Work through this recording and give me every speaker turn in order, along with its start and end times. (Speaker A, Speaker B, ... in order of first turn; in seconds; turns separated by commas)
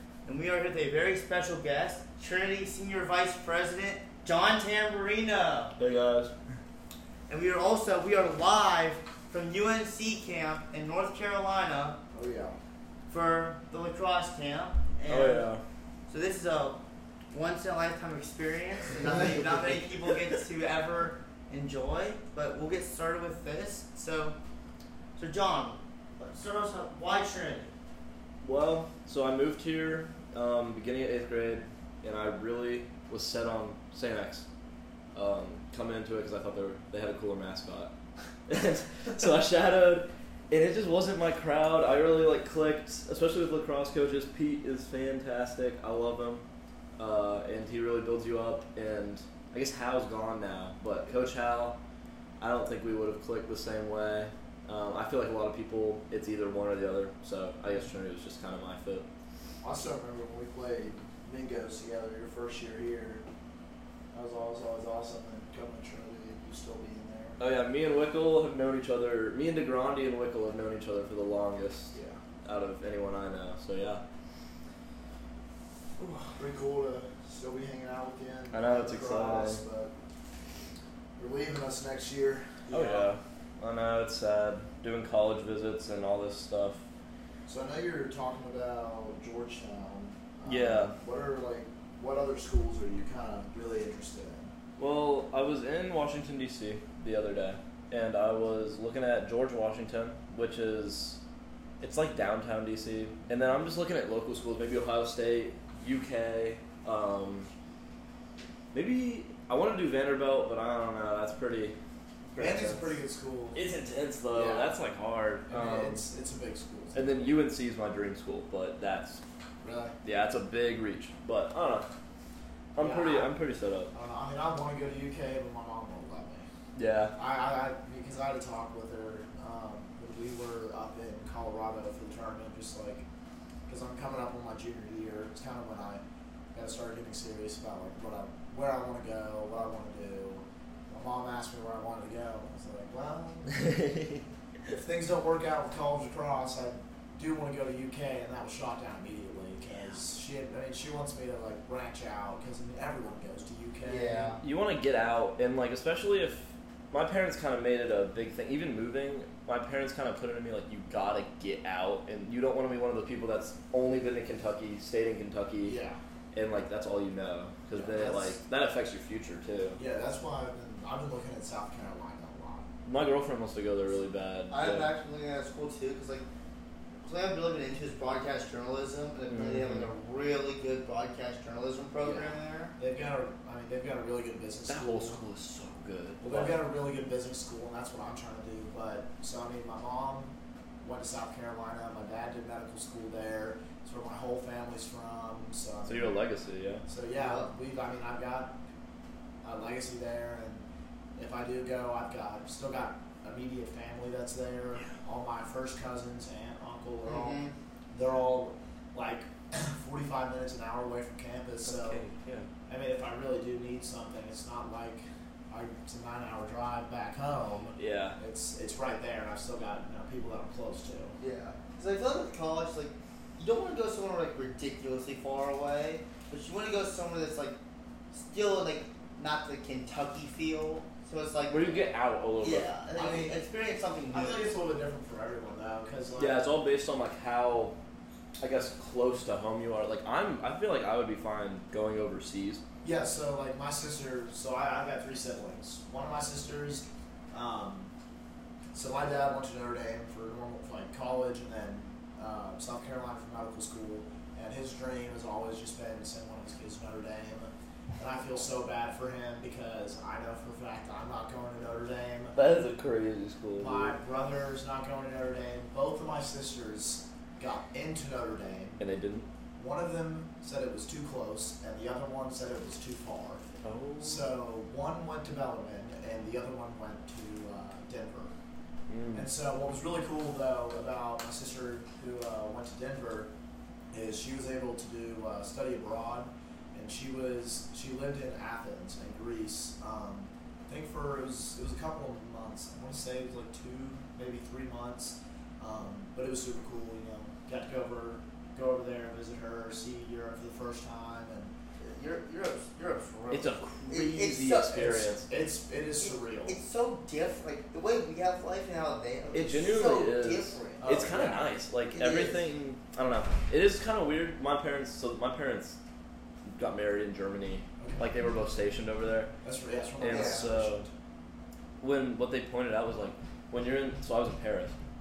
Speaker A: 0.2-5.7, Speaker B: 5.8-6.3, Speaker A: 7.3-12.0, Speaker C: 12.1-12.6, Speaker A: 13.1-15.4, Speaker B: 15.1-15.6, Speaker A: 16.1-16.8, Speaker A: 17.3-24.4, Speaker A: 25.2-27.7, Speaker B: 28.4-34.5, Speaker B: 35.1-37.9, Speaker B: 38.5-46.4, Speaker B: 47.0-51.8, Speaker B: 52.4-59.1, Speaker C: 59.6-63.2, Speaker C: 64.1-67.4, Speaker B: 67.4-74.0, Speaker C: 71.9-72.2, Speaker B: 76.0-76.3, Speaker C: 76.4-79.9, Speaker B: 78.5-79.6, Speaker C: 81.2-83.1, Speaker B: 82.7-86.8, Speaker C: 87.5-94.5, Speaker B: 90.5-90.9, Speaker B: 94.8-101.2, Speaker B: 101.8-107.5, Speaker B: 108.7-111.8, Speaker B: 112.3-112.9, Speaker C: 112.4-113.6, Speaker B: 113.5-116.0, Speaker C: 114.3-114.7, Speaker C: 115.5-117.3, Speaker B: 117.0-119.2, Speaker C: 119.6-119.9, Speaker B: 120.0-121.9, Speaker B: 122.8-123.9, Speaker C: 122.8-123.3, Speaker C: 123.9-126.5, Speaker B: 126.8-127.1, Speaker C: 127.2-133.1, Speaker C: 133.7-136.0, Speaker C: 136.5-143.7, Speaker B: 143.6-144.2, Speaker C: 144.7-154.4, Speaker A: 153.8-154.4, Speaker B: 154.4-165.8, Speaker C: 165.6-166.0, Speaker B: 166.3-169.8, Speaker C: 167.7-168.4, Speaker C: 169.8-172.7, Speaker B: 172.8-174.9, Speaker A: 174.5-176.2, Speaker A: 177.0-182.7, Speaker B: 179.3-179.9, Speaker C: 182.0-185.2, Speaker B: 184.7-186.6, Speaker C: 186.2-196.1, Speaker B: 195.8-196.8, Speaker C: 196.9-198.6, Speaker A: 197.2-197.5, Speaker C: 199.4-200.7, Speaker C: 201.2-212.0, Speaker A: 207.1-207.5, Speaker B: 211.7-212.5, Speaker C: 212.7-221.2, Speaker B: 217.8-218.2, Speaker A: 221.2-227.6, Speaker A: 228.1-231.9, Speaker B: 231.5-232.7, Speaker A: 232.4-234.6, Speaker C: 232.9-233.4, Speaker C: 234.1-236.6, Speaker B: 236.2-237.8, Speaker B: 238.4-242.6, Speaker C: 242.8-247.9, Speaker C: 248.7-262.4, Speaker B: 262.3-264.0, Speaker C: 263.6-268.8, Speaker B: 268.8-269.3, Speaker C: 269.6-273.4, Speaker B: 273.6-274.3, Speaker C: 274.0-278.3, Speaker B: 278.9-279.3, Speaker C: 279.1-283.3, Speaker C: 283.9-301.5, Speaker A: 301.8-304.9, Speaker B: 303.3-305.3, Speaker C: 304.5-306.6, Speaker A: 306.0-311.0, Speaker B: 309.3-315.8, Speaker C: 310.8-311.5, Speaker A: 311.9-312.4, Speaker B: 316.5-319.3, Speaker C: 317.8-318.1, Speaker C: 319.4-320.9, Speaker B: 320.0-320.8, Speaker A: 320.1-320.4, Speaker B: 321.8-324.7